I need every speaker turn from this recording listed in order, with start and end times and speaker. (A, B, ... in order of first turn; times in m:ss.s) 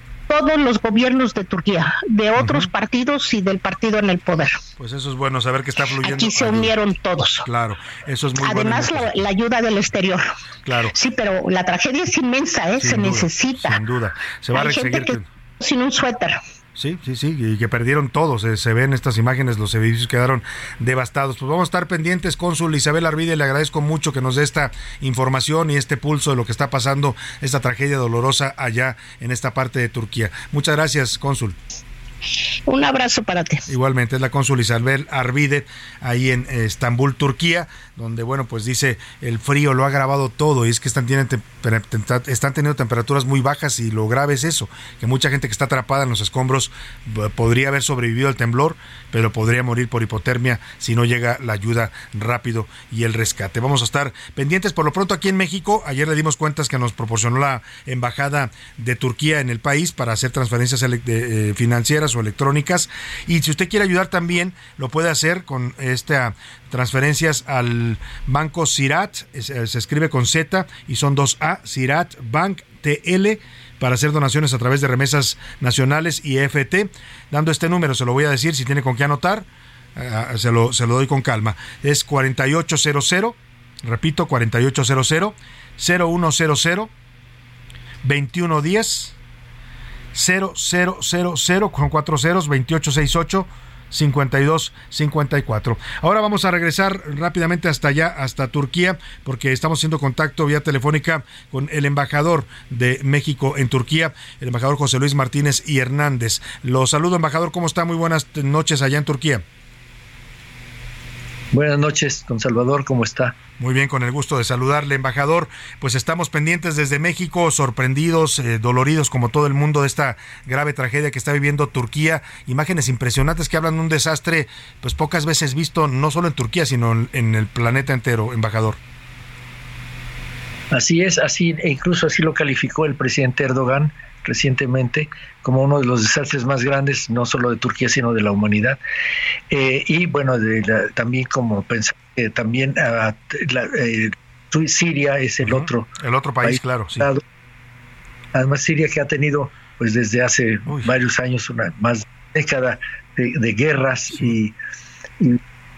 0:00.3-0:04.6 A
0:02.4-0:02.7 B
0:04.8-0:06.7 B
0:06.0-0:07.4 A
0:07.4-0:09.2 B
0:08.4-0:10.3 A
0:10.6-0:10.9 B
0:10.9-0:13.8 A
0:12.8-0:15.2 B
0:14.5-0:16.4 A
0:16.8-0:31.6 B
0:32.7-0:33.6 A
0:33.7-1:26.9 B
1:28.0-1:29.1 B
1:30.1-1:49.4 B
1:51.5-1:53.3 C
1:53.6-2:08.8 B
2:10.7-2:18.8 C
2:19.5-2:25.9 C
2:25.4-2:27.1 B
2:26.4-2:27.2 C
2:28.3-2:34.5 C
2:30.6-2:30.9 B